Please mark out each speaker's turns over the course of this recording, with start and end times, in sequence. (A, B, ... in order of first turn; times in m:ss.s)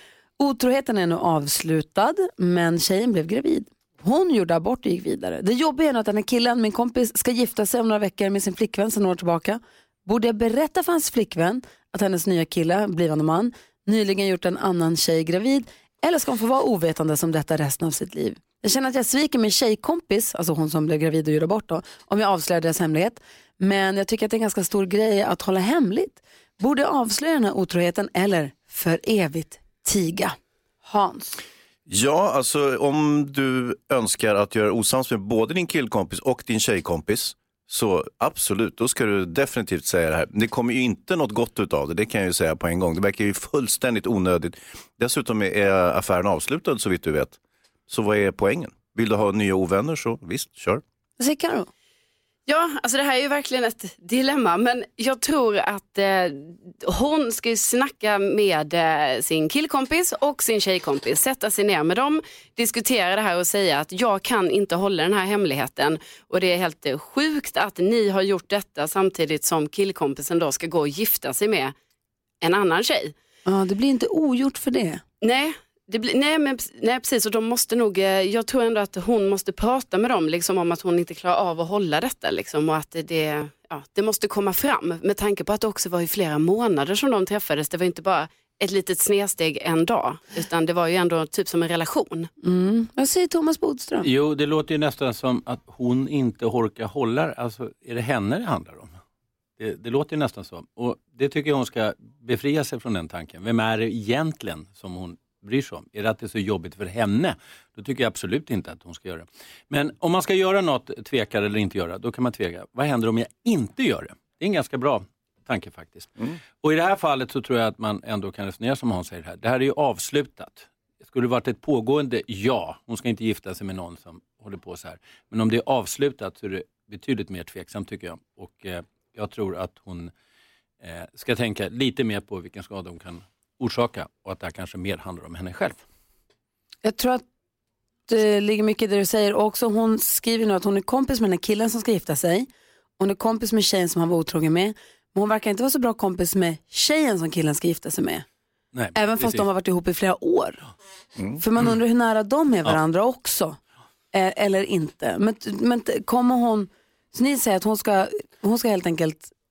0:00.4-0:31.4 A
0:31.9-0:50.8 B
0:51.2-0:51.7 A
0:52.5-1:11.7 C
1:12.4-1:13.1 C
1:13.5-1:15.0 A
1:15.2-1:32.3 C
1:32.4-1:34.1 A
1:34.1-1:39.0 D
1:39.6-2:10.1 D
2:10.8-2:15.8 D
2:16.8-2:17.2 A
2:18.1-2:22.5 A
2:23.0-2:28.2 A
2:29.0-2:30.6 A
2:31.4-2:33.6 A
2:34.1-2:39.3 A